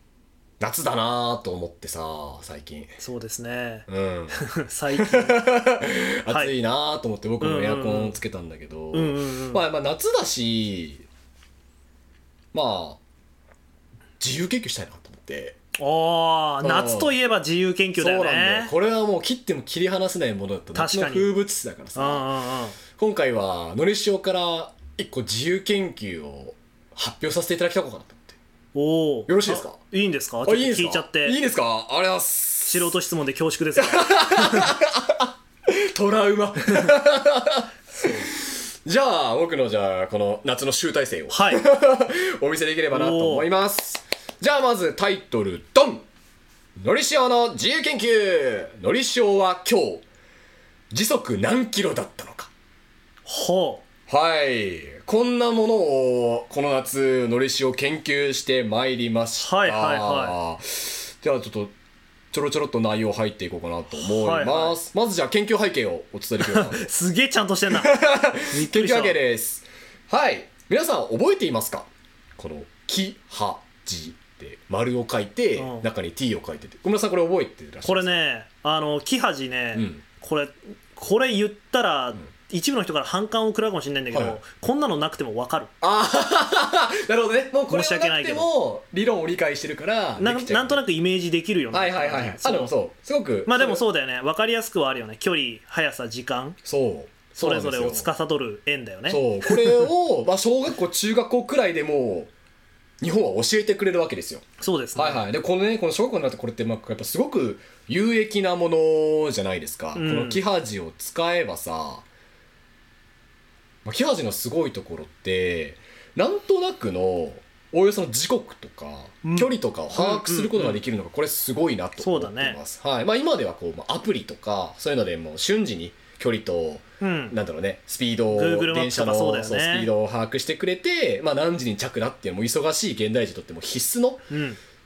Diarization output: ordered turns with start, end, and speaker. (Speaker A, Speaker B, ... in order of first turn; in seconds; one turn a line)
Speaker A: 0.6-2.9
Speaker B: 3.0-5.5
Speaker A: 3.9-11.1
Speaker B: 6.3-6.5
Speaker B: 7.4-8.2
Speaker B: 8.9-9.6
Speaker A: 12.5-13.0
Speaker A: 14.2-15.6
Speaker B: 15.8-18.7
Speaker A: 16.6-17.1
Speaker A: 18.0-22.3
Speaker B: 20.7-21.3
Speaker B: 21.9-22.8
Speaker A: 22.9-28.4
Speaker B: 28.7-31.4
Speaker A: 29.3-29.8
Speaker A: 30.4-32.9
Speaker B: 32.7-34.7
Speaker A: 33.8-46.0
Speaker B: 37.9-38.3
Speaker B: 41.3-41.6
Speaker B: 42.9-43.5
Speaker A: 46.8-50.0
Speaker A: 50.9-52.5
Speaker B: 53.2-53.8
Speaker A: 54.1-61.7
Speaker B: 59.4-60.4
Speaker A: 62.3-66.9
Speaker B: 64.0-64.8
Speaker B: 66.4-69.2
Speaker A: 67.7-78.2
Speaker B: 75.5-75.8
Speaker B: 77.8-85.7
Speaker A: 79.7-80.0
Speaker A: 84.1-84.4
Speaker A: 85.8-90.8
Speaker B: 87.7-88.5
Speaker B: 90.2-92.7
Speaker A: 91.7-93.8
Speaker B: 93.5-96.6
Speaker A: 96.6-98.1
Speaker B: 97.4-99.9
Speaker A: 99.1-102.3
Speaker A: 103.0-112.0
Speaker B: 104.6-105.2
Speaker B: 109.9-110.4
Speaker A: 113.8-134.2
Speaker B: 119.2-120.8
Speaker B: 122.0-122.6
Speaker B: 127.0-127.4
Speaker B: 128.3-129.9
Speaker B: 134.3-134.6